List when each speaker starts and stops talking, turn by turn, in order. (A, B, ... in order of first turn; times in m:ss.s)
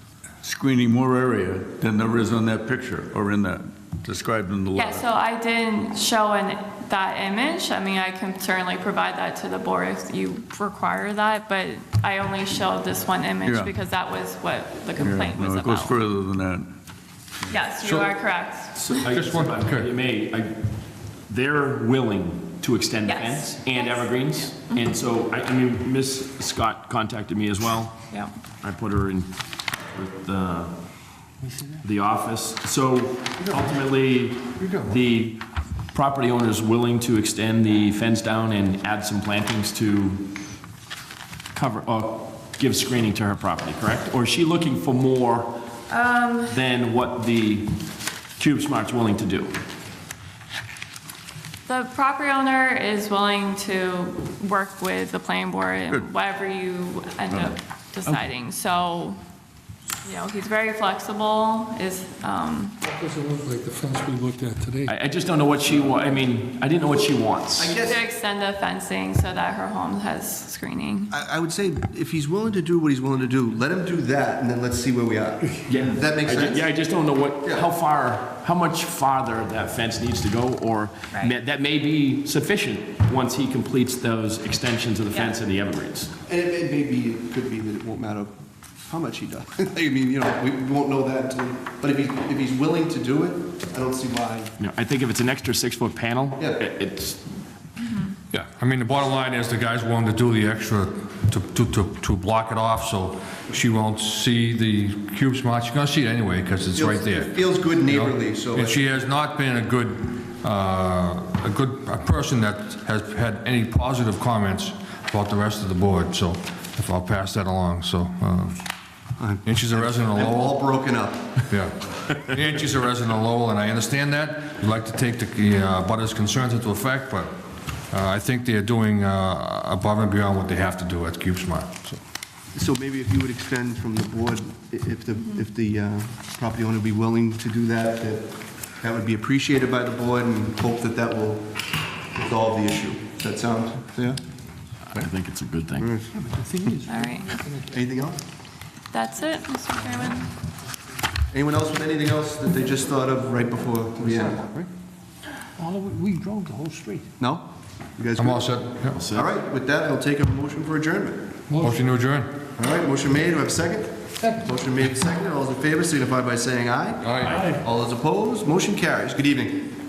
0:00.4-0:05.0 A
0:04.7-0:16.0 B
0:13.4-0:13.7 A
0:15.0-0:16.8 A
0:17.5-0:18.9 B
0:17.8-0:18.1 C
0:18.7-0:20.6 D
0:19.0-0:19.9 C
0:21.3-0:28.0 D
0:23.0-0:24.8 B
0:28.6-0:29.3 D
0:29.9-0:30.7 D
0:31.8-0:35.4 D
0:35.9-0:40.3 D
0:41.5-0:45.7 D
0:45.9-0:46.5 B
0:46.5-0:47.8 D
0:48.4-0:49.6 D
0:51.7-0:59.2 B
1:00.0-1:02.8 B
1:02.8-1:04.9 E
1:04.8-1:07.8 D
1:07.6-1:08.0 F
1:07.8-1:11.1 B
1:11.1-1:16.6 F
1:15.7-1:26.1 D
1:26.2-1:34.5 F
1:34.6-1:37.2 D
1:36.4-1:36.6 F
1:37.8-1:38.2 B
1:38.3-1:58.6 C
1:46.7-1:48.9 F
1:59.2-2:01.4 F
1:59.4-2:00.5 C
2:01.5-2:07.3 C
2:07.9-2:12.0 C
2:12.5-2:21.6 F
2:22.1-2:24.2 F
2:24.9-2:25.9 D
2:25.8-2:26.1 F
2:26.2-2:27.7 G
2:26.8-2:27.4 B
2:27.7-2:28.2 F
2:28.9-2:30.3 B
2:31.3-2:34.7 F
2:35.6-2:37.1 G
2:37.2-2:41.3 F
2:38.2-2:39.0 C
2:38.9-2:39.3 D
2:41.5-2:41.8 E
2:41.6-2:42.4 C
2:42.5-2:49.7 F
2:47.0-2:47.4 C
2:47.2-2:47.6 D